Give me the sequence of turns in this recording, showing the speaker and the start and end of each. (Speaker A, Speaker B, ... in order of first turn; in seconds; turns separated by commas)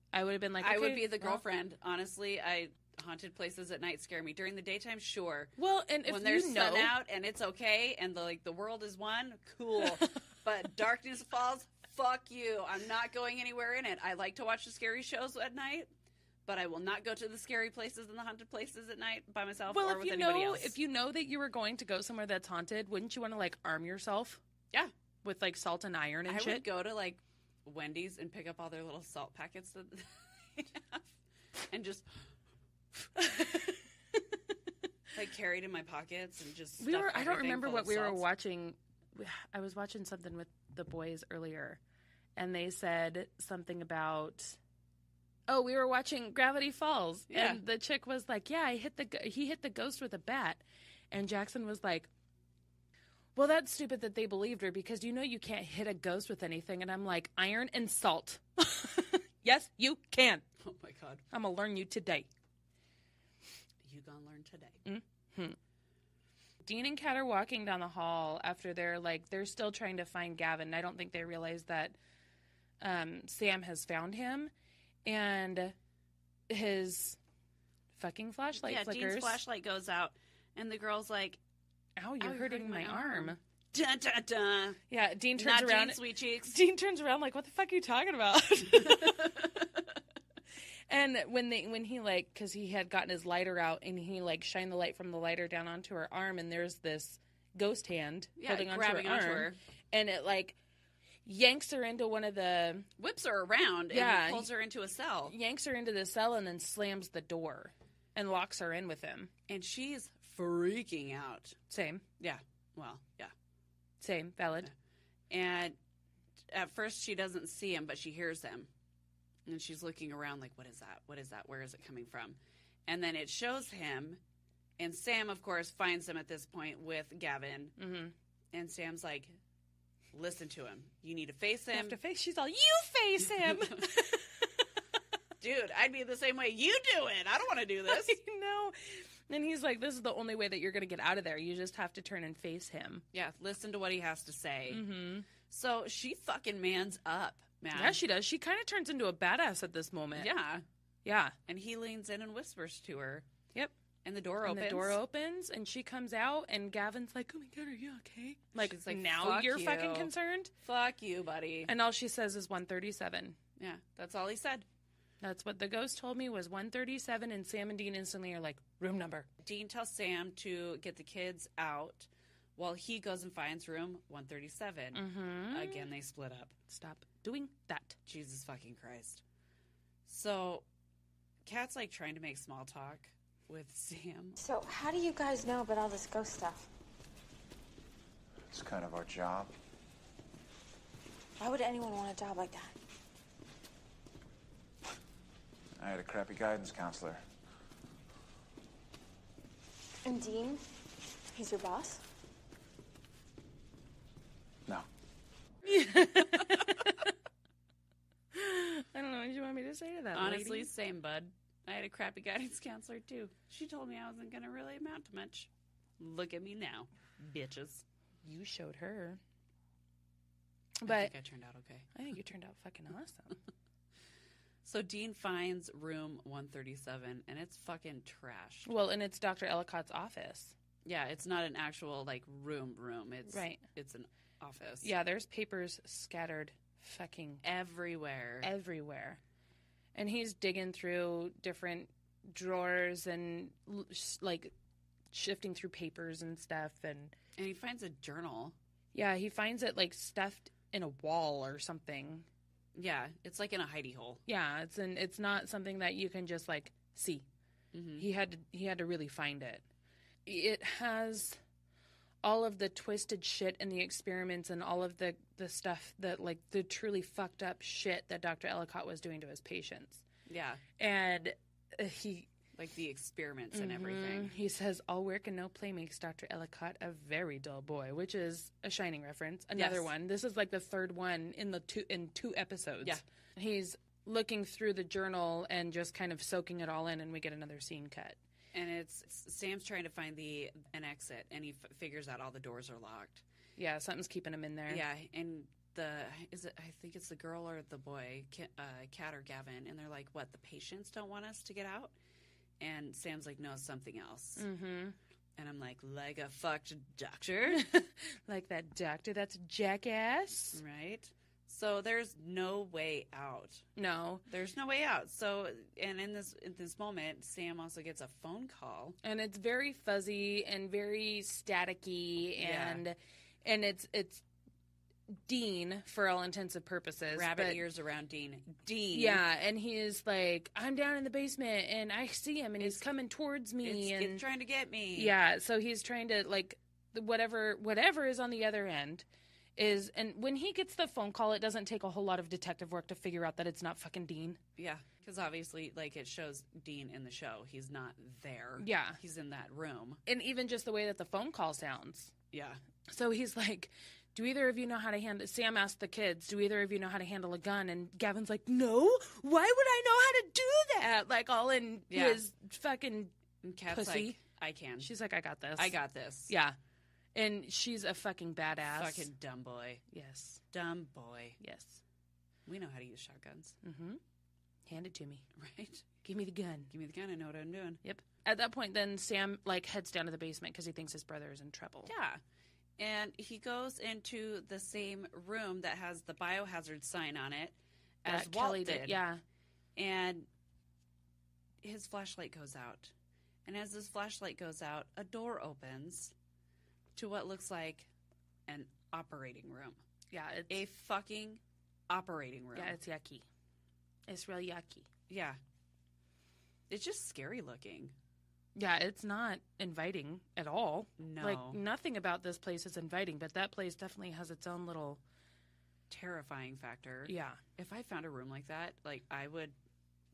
Speaker A: 0.1-1.4, Speaker B: 0.6-5.5, Speaker A: 5.6-7.0, Speaker B: 6.1-15.9, Speaker B: 16.5-20.7, Speaker A: 19.7-24.4, Speaker A: 25.2-26.6, Speaker B: 26.3-31.1, Speaker B: 31.7-32.3, Speaker A: 33.1-34.2, Speaker B: 35.1-38.2, Speaker A: 36.8-41.8, Speaker A: 42.4-44.6, Speaker A: 45.5-52.1, Speaker B: 47.3-47.6, Speaker A: 53.4-60.4, Speaker B: 60.6-61.2, Speaker A: 61.3-62.3, Speaker B: 63.9-64.8, Speaker A: 64.8-65.6, Speaker A: 66.6-72.0, Speaker A: 72.8-74.5, Speaker A: 75.0-75.8, Speaker A: 76.5-77.2, Speaker A: 78.0-79.4, Speaker B: 78.6-81.4, Speaker A: 82.0-83.4, Speaker B: 82.2-84.8, Speaker A: 84.9-89.5, Speaker B: 85.4-86.6, Speaker A: 90.9-100.6, Speaker B: 98.4-99.6, Speaker A: 101.2-102.9, Speaker B: 103.0-105.3, Speaker A: 103.9-104.5, Speaker A: 105.3-109.3, Speaker B: 109.5-111.6, Speaker A: 111.7-112.0, Speaker B: 112.2-113.3, Speaker A: 114.0-114.7, Speaker B: 115.3-115.8, Speaker B: 116.5-118.7, Speaker B: 119.5-124.2, Speaker B: 124.8-127.8, Speaker A: 127.8-128.1, Speaker B: 128.5-129.4, Speaker B: 130.1-132.0, Speaker A: 131.7-134.6, Speaker B: 135.4-138.2, Speaker A: 137.9-143.0, Speaker B: 143.1-148.0, Speaker A: 144.7-145.3, Speaker A: 147.7-150.3, Speaker B: 150.1-150.6, Speaker A: 151.0-151.3, Speaker B: 151.5-153.3, Speaker B: 154.0-155.0, Speaker A: 154.4-160.5, Speaker B: 158.6-160.1, Speaker B: 160.6-161.7, Speaker A: 161.7-163.4, Speaker B: 163.6-164.7, Speaker A: 165.2-169.3, Speaker B: 169.4-176.5, Speaker A: 174.9-175.9, Speaker A: 176.7-178.0, Speaker B: 178.1-179.2, Speaker B: 180.1-180.6, Speaker B: 181.5-184.4, Speaker C: 184.4-186.7, Speaker D: 188.5-189.5, Speaker C: 191.4-192.7, Speaker D: 195.8-197.2, Speaker C: 200.0-200.6, Speaker C: 201.3-202.0, Speaker A: 205.6-207.1, Speaker A: 208.3-210.7, Speaker B: 210.1-217.8, Speaker A: 218.2-219.2, Speaker A: 220.8-221.1, Speaker B: 220.8-221.9, Speaker A: 221.9-223.4, Speaker B: 224.6-228.7, Speaker A: 228.7-230.6, Speaker B: 230.8-234.9, Speaker A: 233.3-233.6, Speaker A: 234.8-237.4, Speaker B: 237.4-238.5, Speaker A: 238.4-239.2, Speaker A: 239.9-244.5, Speaker A: 245.1-247.1, Speaker B: 247.4-248.6, Speaker A: 248.9-252.3, Speaker B: 252.8-254.2, Speaker A: 254.3-257.3, Speaker B: 257.7-258.1, Speaker A: 258.0-259.6, Speaker A: 260.2-261.4, Speaker A: 262.2-270.0, Speaker B: 270.3-270.6, Speaker A: 270.8-272.3, Speaker B: 272.6-274.3, Speaker A: 273.5-288.2, Speaker B: 279.6-279.9, Speaker B: 288.5-293.2, Speaker A: 293.6-294.8, Speaker B: 294.7-301.9, Speaker B: 302.6-304.5, Speaker A: 304.4-305.0, Speaker B: 305.4-307.7, Speaker A: 307.5-310.6, Speaker B: 310.5-313.6, Speaker A: 313.8-314.2, Speaker B: 314.3-319.0, Speaker A: 319.0-324.2, Speaker B: 322.4-322.8, Speaker A: 325.1-327.6, Speaker B: 327.1-329.2, Speaker A: 328.9-334.2, Speaker B: 333.6-335.1, Speaker A: 335.0-339.1, Speaker A: 339.6-344.4, Speaker B: 344.6-350.0, Speaker A: 348.6-349.0, Speaker A: 350.1-352.1, Speaker B: 352.3-352.6, Speaker A: 352.9-363.1, Speaker B: 361.9-362.2, Speaker B: 363.4-364.9, Speaker A: 363.7-364.2, Speaker A: 364.8-365.8, Speaker B: 365.6-366.3, Speaker A: 366.3-366.6, Speaker A: 367.1-369.1, Speaker B: 368.7-369.8, Speaker A: 369.9-370.4, Speaker B: 370.5-371.4, Speaker A: 371.4-371.8, Speaker B: 372.5-373.6, Speaker A: 373.6-374.0, Speaker A: 374.6-375.3, Speaker B: 375.4-375.9, Speaker A: 376.0-376.7, Speaker B: 376.7-377.8, Speaker A: 377.8-381.9, Speaker B: 381.9-382.2, Speaker B: 382.8-389.0, Speaker A: 388.1-389.2, Speaker B: 389.8-390.3, Speaker B: 391.6-392.9, Speaker B: 393.5-396.1, Speaker B: 397.0-397.9, Speaker B: 398.5-399.8, Speaker A: 400.1-400.6, Speaker B: 400.5-402.8, Speaker A: 402.6-403.2, Speaker A: 404.1-404.9, Speaker B: 405.1-405.4, Speaker B: 406.7-407.9, Speaker A: 408.6-415.0, Speaker B: 411.0-411.6, Speaker B: 415.9-419.6, Speaker A: 417.1-417.4